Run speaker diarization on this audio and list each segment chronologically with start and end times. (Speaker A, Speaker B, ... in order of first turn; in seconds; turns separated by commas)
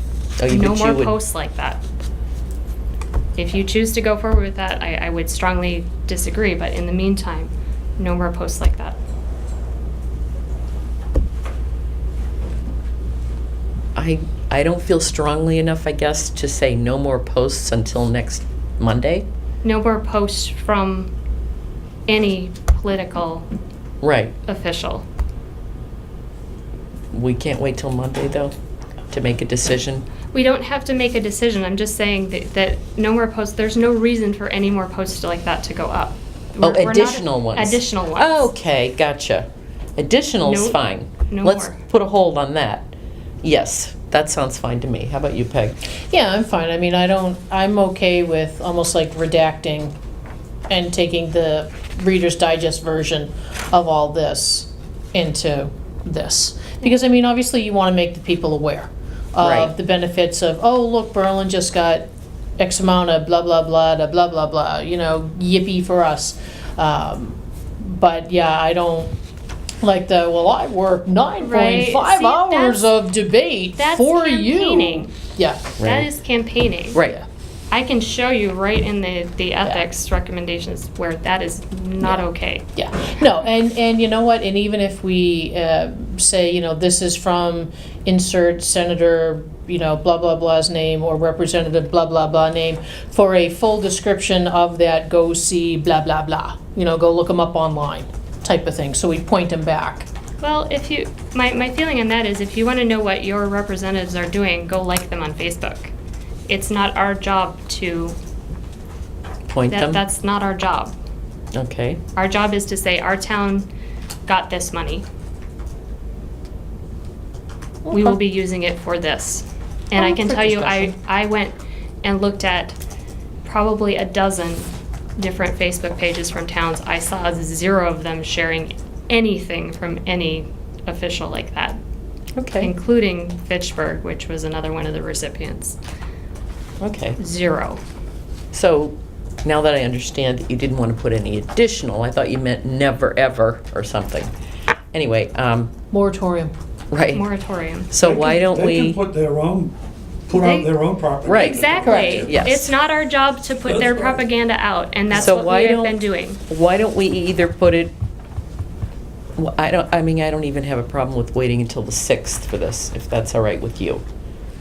Speaker A: 0.4-1.2, Speaker B: 0.5-1.8, Speaker B: 3.4-9.0, Speaker A: 14.0-19.3, Speaker B: 19.6-21.1, Speaker B: 22.1-23.5, Speaker A: 24.0-24.4, Speaker B: 24.5-25.1, Speaker A: 27.1-28.6, Speaker A: 29.1-30.1, Speaker B: 30.3-38.5, Speaker A: 36.6-45.8, Speaker B: 40.4-41.8, Speaker C: 46.1-49.9, Speaker C: 50.7-62.1, Speaker A: 59.4-59.7, Speaker C: 62.6-69.1, Speaker C: 69.8-75.8, Speaker B: 71.4-72.9, Speaker B: 73.8-75.1, Speaker A: 75.8-76.1, Speaker B: 75.8-77.0, Speaker A: 76.9-77.2, Speaker B: 77.7-82.7, Speaker C: 82.0-100.1, Speaker B: 100.4-105.9, Speaker B: 106.5-108.2, Speaker A: 109.5-110.0, Speaker B: 109.7-111.0, Speaker A: 111.5-112.0, Speaker B: 112.2-113.7, Speaker B: 114.3-115.1, Speaker C: 117.9-118.1, Speaker B: 117.9-122.8, Speaker C: 120.0-120.9, Speaker B: 123.4-131.8, Speaker A: 132.4-132.7, Speaker B: 132.6-135.8, Speaker A: 136.8-137.2, Speaker B: 137.2-137.8, Speaker A: 138.5-144.3, Speaker A: 144.9-145.7, Speaker C: 145.9-146.5, Speaker A: 146.9-147.3, Speaker B: 147.1-147.9, Speaker A: 147.9-149.0, Speaker D: 148.0-149.8, Speaker D: 150.3-152.3, Speaker B: 150.3-150.7, Speaker A: 151.2-152.7, Speaker B: 151.3-156.4, Speaker C: 151.8-152.3, Speaker D: 153.7-154.2, Speaker A: 155.1-157.9, Speaker A: 159.4-164.0